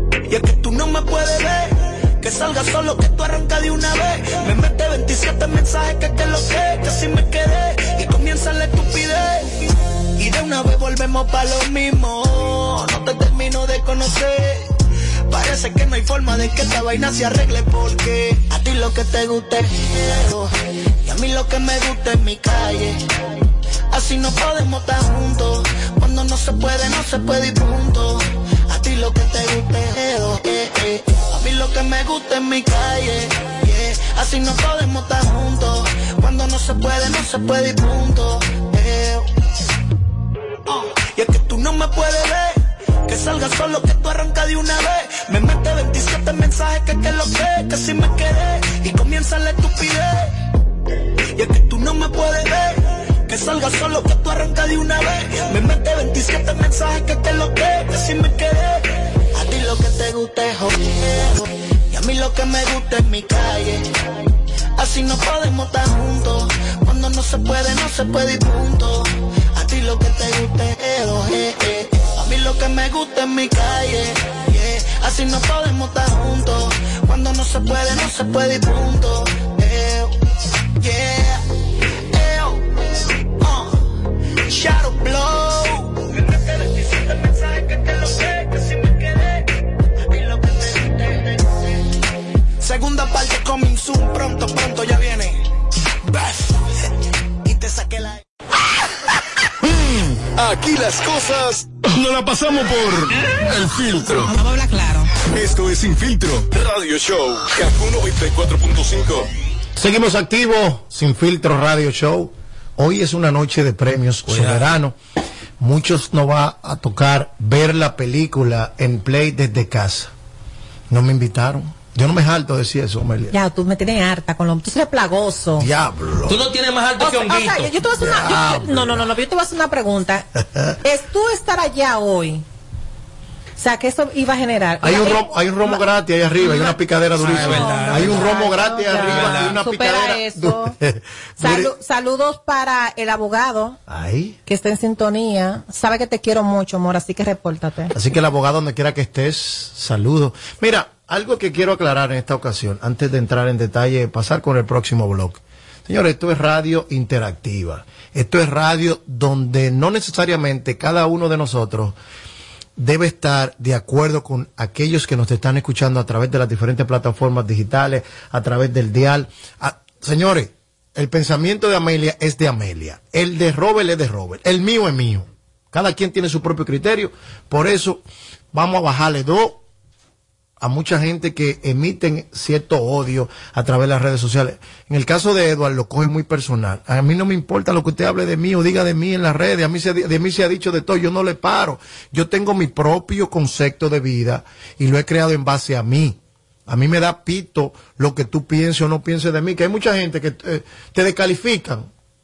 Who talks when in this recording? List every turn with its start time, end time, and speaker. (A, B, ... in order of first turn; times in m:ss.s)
0:00.3-0:09.5 A
0:10.2-0:14.7 A
0:15.3-0:23.0 A
0:23.9-0:39.3 A
0:40.7-0:50.4 A
0:51.3-1:03.9 A
1:04.8-1:20.2 A
1:20.8-1:21.5 A
1:22.1-1:24.0 A
1:24.5-1:29.5 A
1:30.0-1:31.9 A
1:32.6-1:35.5 A
1:37.4-1:38.2 A
1:39.7-1:44.4 B
1:44.4-1:45.0 C
1:45.3-1:49.3 B
1:49.8-1:55.0 D
1:54.3-1:54.7 E
1:55.6-2:00.1 D
2:00.9-2:03.3 D
2:03.3-2:05.7 C
2:05.6-2:06.4 D
2:06.3-2:07.7 E
2:07.0-2:10.3 C
2:08.0-2:09.1 D
2:10.4-2:10.7 D
2:10.8-2:12.4 C
2:13.6-2:15.8 C
2:14.8-2:21.7 D
2:16.4-2:20.8 C
2:17.2-2:19.6 E
2:21.4-2:23.8 C
2:23.9-2:24.4 D
2:24.4-2:27.9 C
2:27.9-2:42.0 D
2:42.8-2:59.6 D
3:00.6-3:21.9 D